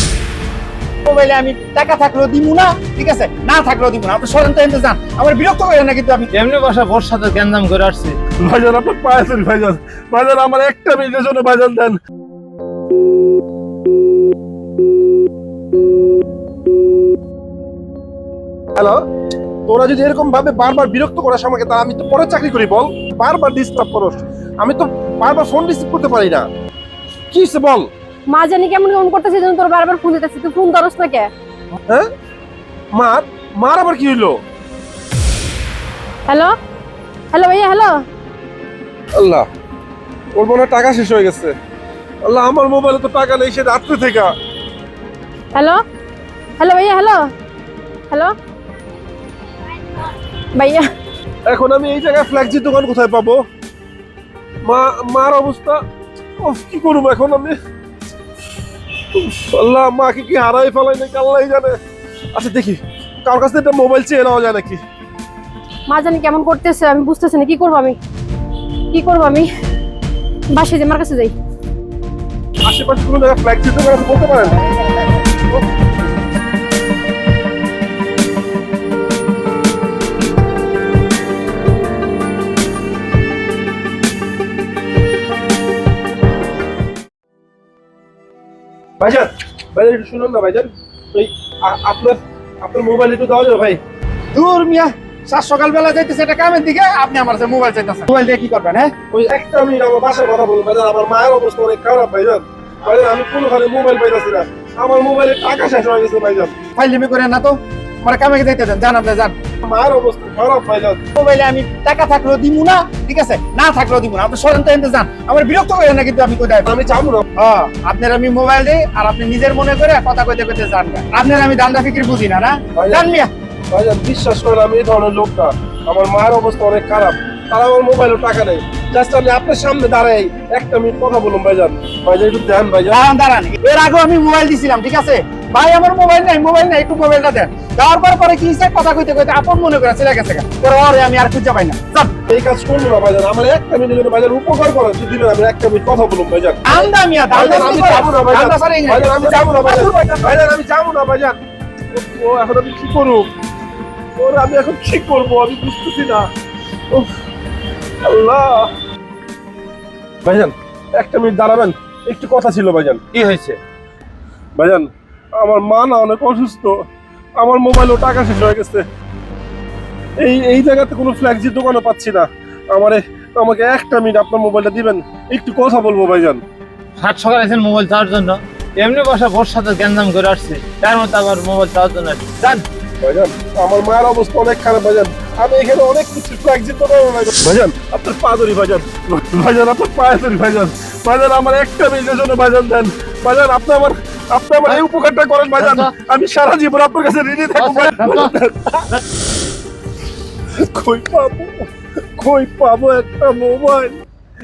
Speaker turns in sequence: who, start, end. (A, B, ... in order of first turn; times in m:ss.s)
0:01.0-0:06.3 A
0:06.3-0:08.2 B
0:08.4-0:12.0 C
0:18.8-0:19.0 C
0:19.7-0:26.4 C
0:27.3-0:27.9 C
0:28.3-0:31.3 D
0:32.9-0:34.4 C
0:36.3-0:36.5 D
0:37.3-0:38.0 D
0:39.1-0:39.5 C
0:40.3-0:41.5 C
0:42.2-0:44.3 C
0:45.5-0:45.8 D
0:46.6-0:47.3 D
0:50.5-0:50.9 D
0:51.5-0:53.4 C
0:54.6-0:55.8 C
0:56.4-0:57.6 C
0:59.1-1:01.8 C
1:02.3-1:04.8 C
1:05.9-1:08.0 D
1:08.9-1:09.5 D
1:10.5-1:11.3 D
1:12.6-1:14.7 C
1:29.0-1:33.8 C
1:34.3-1:38.9 A
1:39.1-1:46.6 C
1:46.8-1:49.3 A
1:49.6-1:51.1 C
1:51.2-1:56.8 A
1:56.7-1:57.3 C
1:57.4-2:03.3 A
2:02.8-2:03.0 C
2:03.7-2:13.0 C
2:12.9-2:22.2 A
2:22.3-2:31.4 C
2:26.6-2:30.2 A
2:31.9-2:33.3 C
2:34.2-2:36.3 C
2:38.0-2:38.7 C
2:40.2-2:43.0 C
2:43.1-2:43.6 B
2:44.6-2:46.8 C
2:47.4-2:48.8 C
2:50.2-2:56.4 C
2:57.0-3:02.6 B
3:03.0-3:18.9 C
3:15.6-3:15.9 B
3:17.6-3:18.3 B
3:20.5-3:24.0 C